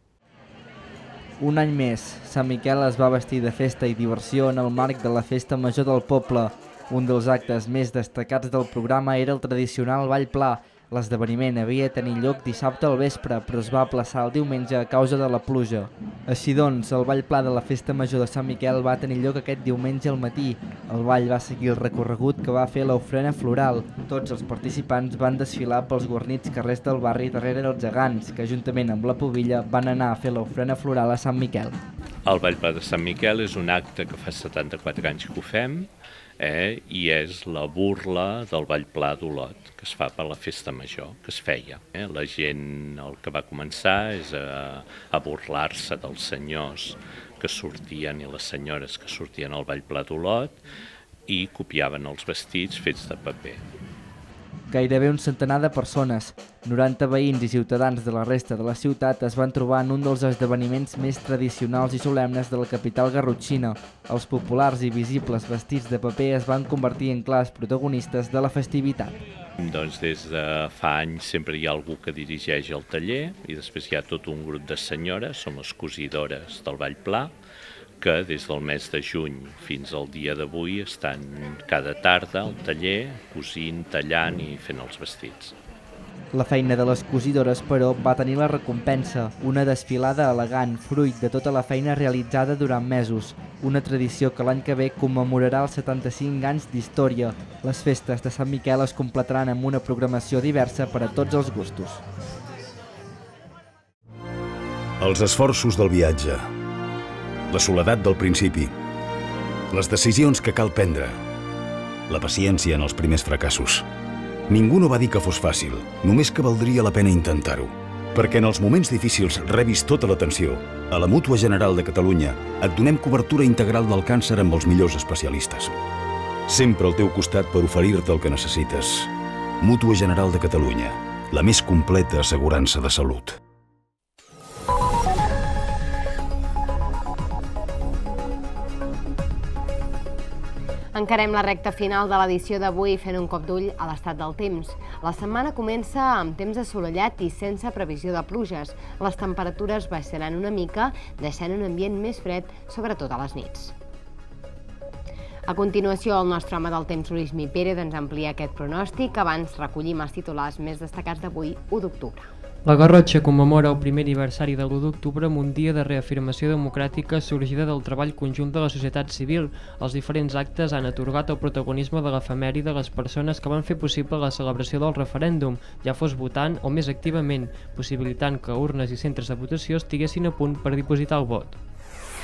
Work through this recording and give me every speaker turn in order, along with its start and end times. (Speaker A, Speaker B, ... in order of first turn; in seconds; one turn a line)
Speaker A: 1.4-31.8
Speaker B: 32.2-50.6
Speaker B: 51.3-53.6
Speaker A: 54.7-69.2
Speaker B: 69.6-77.3
Speaker B: 78.0-85.5
Speaker A: 86.3-102.0
Speaker C: 105.0-106.5
Speaker C: 107.5-108.7
Speaker C: 109.7-111.2
Speaker C: 112.1-113.9
Speaker C: 114.5-125.8
Speaker C: 126.5-133.4
Speaker D: 140.9-153.7
Speaker D: 155.5-162.3
Speaker E: 162.6-181.6